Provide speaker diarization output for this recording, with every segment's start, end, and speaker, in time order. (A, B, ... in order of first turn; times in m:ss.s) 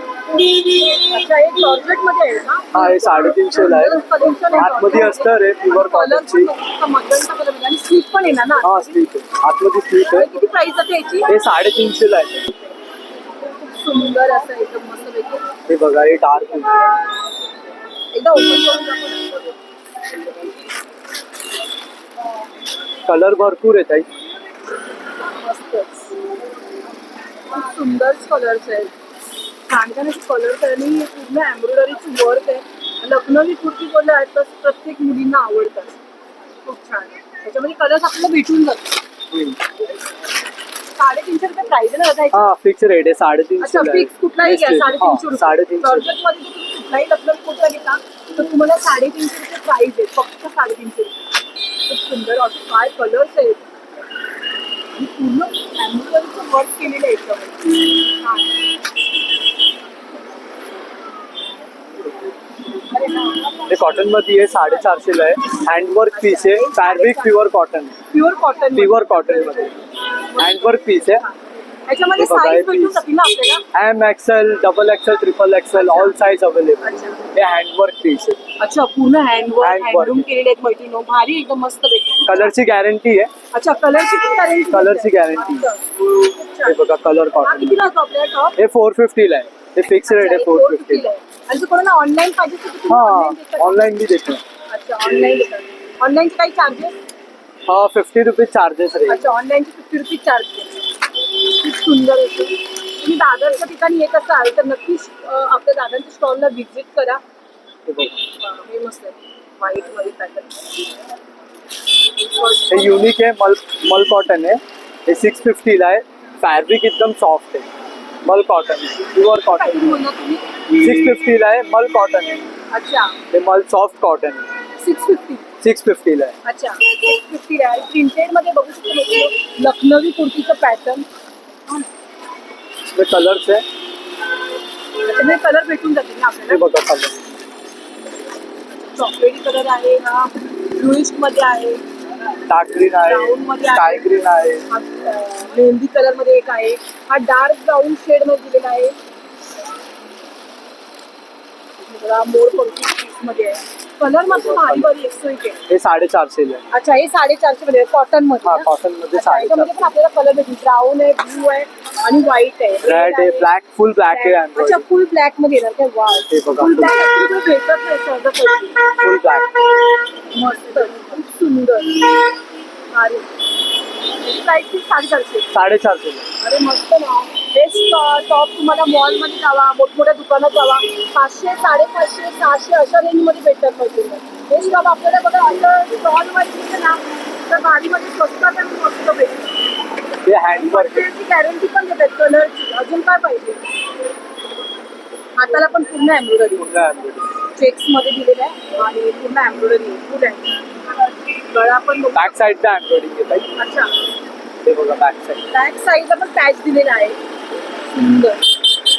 0:00.4-0:09.0 A
0:02.7-0:04.0 B
0:04.5-0:06.5 B
0:08.6-0:10.3 B
0:10.1-0:11.3 A
0:11.3-0:12.5 B
0:13.4-0:15.5 A
0:15.7-0:16.8 B
0:18.1-0:19.5 A
0:23.1-0:24.1 B
0:25.3-0:26.2 A
0:27.5-0:28.9 A
0:29.7-0:36.0 A
0:36.6-0:39.0 A
0:41.0-0:42.4 A
0:42.3-0:46.1 B
0:43.6-0:51.2 A
0:51.8-0:53.6 A
0:54.9-0:58.6 A
1:02.8-1:05.0 A
1:03.7-1:07.9 B
1:06.1-1:07.4 A
1:08.1-1:09.7 A
1:08.7-1:09.8 B
1:10.3-1:11.3 A
1:10.4-1:11.2 B
1:11.9-1:13.6 A
1:12.2-1:13.0 B
1:13.7-1:18.4 B
1:15.8-1:16.2 A
1:16.8-1:17.2 A
1:18.6-1:22.5 A
1:19.6-1:20.2 B
1:22.2-1:23.3 B
1:23.5-1:26.8 A
1:24.7-1:25.7 B
1:26.6-1:27.9 B
1:27.4-1:28.5 A
1:28.6-1:31.1 B
1:29.8-1:33.9 A
1:32.9-1:34.4 B
1:34.7-1:36.9 A
1:37.7-1:39.3 B
1:39.1-1:47.2 A
1:47.9-1:48.2 B
1:48.4-1:50.7 A
1:52.2-1:53.1 A
1:52.7-1:57.7 B
1:58.2-2:00.0 B
1:59.5-2:00.8 A
2:00.8-2:02.4 B
2:02.7-2:03.2 A
2:03.3-2:04.5 B
2:04.8-2:05.5 A
2:05.6-2:06.3 B
2:06.4-2:11.1 A
2:12.9-2:13.6 B
2:15.0-2:16.6 A
2:16.5-2:17.1 B
2:18.9-2:21.8 A
2:22.5-2:24.6 B
2:23.0-2:24.1 A
2:24.7-2:29.0 A
2:31.8-2:35.6 A
2:34.2-2:34.9 B
2:35.7-2:36.6 B
2:36.7-2:43.5 A
2:38.4-2:39.8 B
2:42.8-2:44.8 B
2:44.1-2:48.8 A
2:46.3-2:47.0 B
2:49.0-2:49.5 B
2:50.3-2:52.2 A
2:52.9-2:53.3 A
2:54.2-2:55.5 A
2:55.5-2:56.2 B
2:56.4-3:09.5 A
3:10.2-3:11.1 B
3:10.5-3:13.6 A
3:15.4-3:16.7 A
3:16.6-3:17.3 B
3:17.5-3:20.6 A
3:21.3-3:22.4 A
3:22.1-3:23.5 B
3:23.6-3:23.9 A
3:24.6-3:25.4 B
3:25.5-3:27.2 A
3:27.9-3:28.5 A